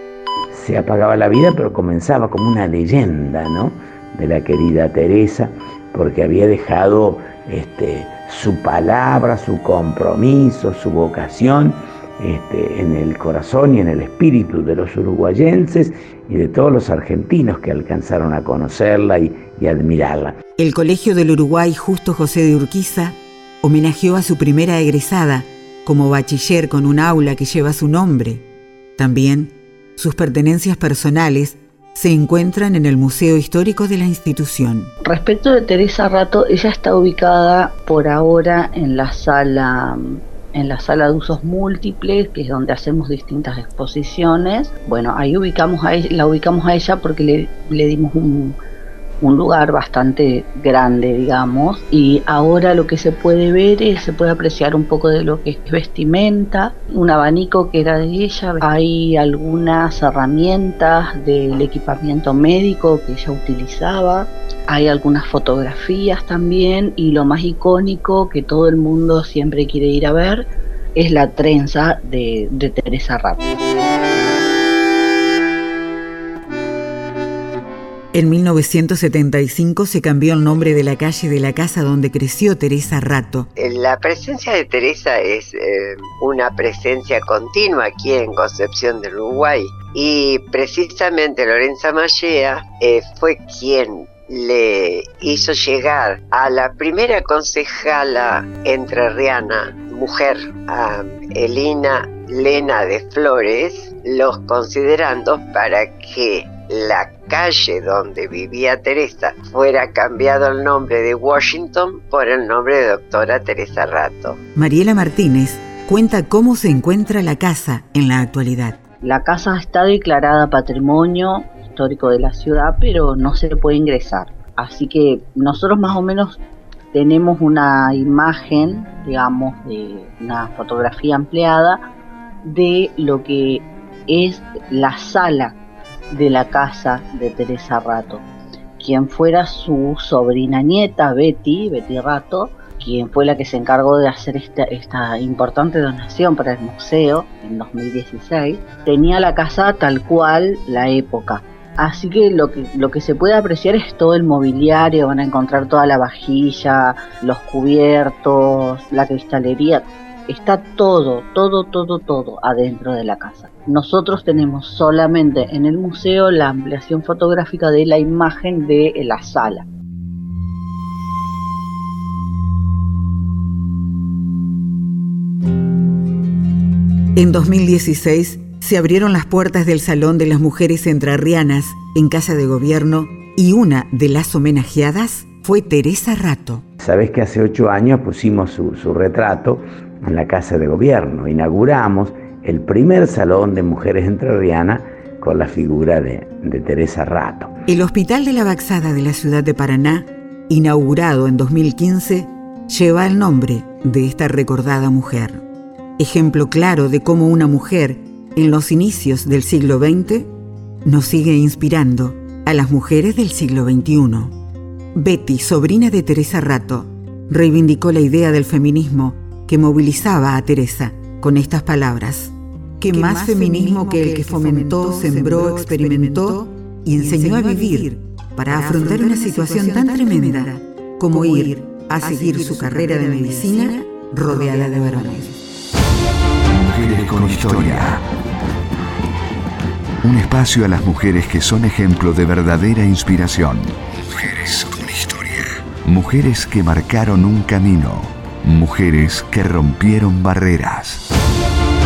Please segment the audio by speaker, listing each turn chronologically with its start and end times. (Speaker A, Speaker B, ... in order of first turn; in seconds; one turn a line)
Speaker A: 0.5-20.4
Speaker B: 20.6-28.4
Speaker B: 29.0-34.9
Speaker C: 35.0-48.6
Speaker C: 49.2-73.4
Speaker B: 78.1-83.5
Speaker D: 83.6-114.4
Speaker B: 114.5-118.8
Speaker C: 119.0-126.4
Speaker C: 126.9-131.8
Speaker C: 132.4-135.6
Speaker C: 136.1-138.2
Speaker C: 138.8-169.7
Speaker B: 177.1-186.6
Speaker A: 186.8-197.5
Speaker B: 197.7-205.4
Speaker B: 206.0-210.3
Speaker B: 210.8-214.3
Speaker B: 214.9-235.4
Speaker E: 236.5-238.0
Speaker E: 240.0-251.0